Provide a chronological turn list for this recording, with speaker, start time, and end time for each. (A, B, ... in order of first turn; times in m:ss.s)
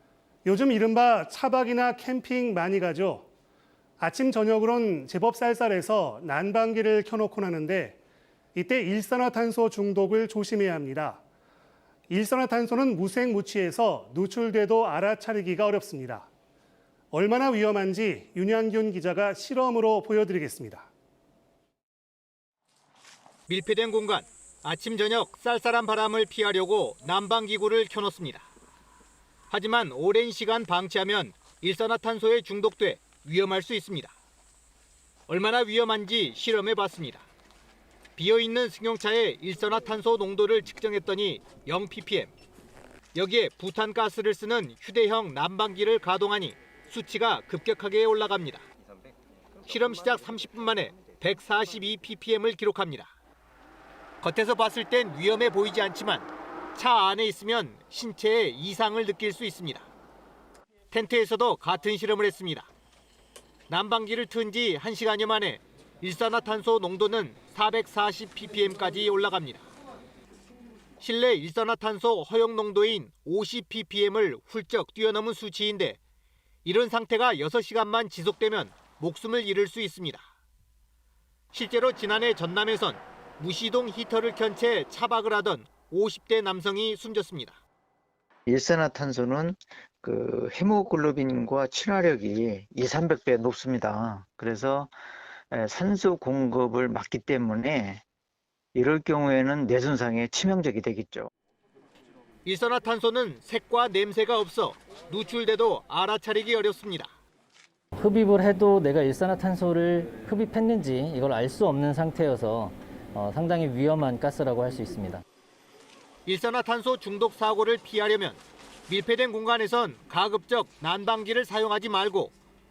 0:00.4-0:03.3 A
0:04.0-0:08.0 A
0:08.6-0:11.2 A
0:12.1-0:16.3 A
0:17.1-0:20.9 A
0:23.5-0:28.5 B
0:29.5-0:34.1 B
0:35.3-0:37.2 B
0:38.2-0:42.3 B
0:43.1-0:48.6 B
0:49.6-0:53.1 B
0:54.2-0:59.9 B
1:00.9-1:02.7 B
1:03.7-1:09.6 B
1:11.0-1:16.0 B
1:16.6-1:20.2 B
1:21.5-1:27.6 B
1:28.5-1:34.9 C
1:35.5-1:38.0 C
1:38.8-1:41.3 C
1:42.4-1:47.1 B
1:48.0-1:55.2 D
1:56.3-2:02.3 B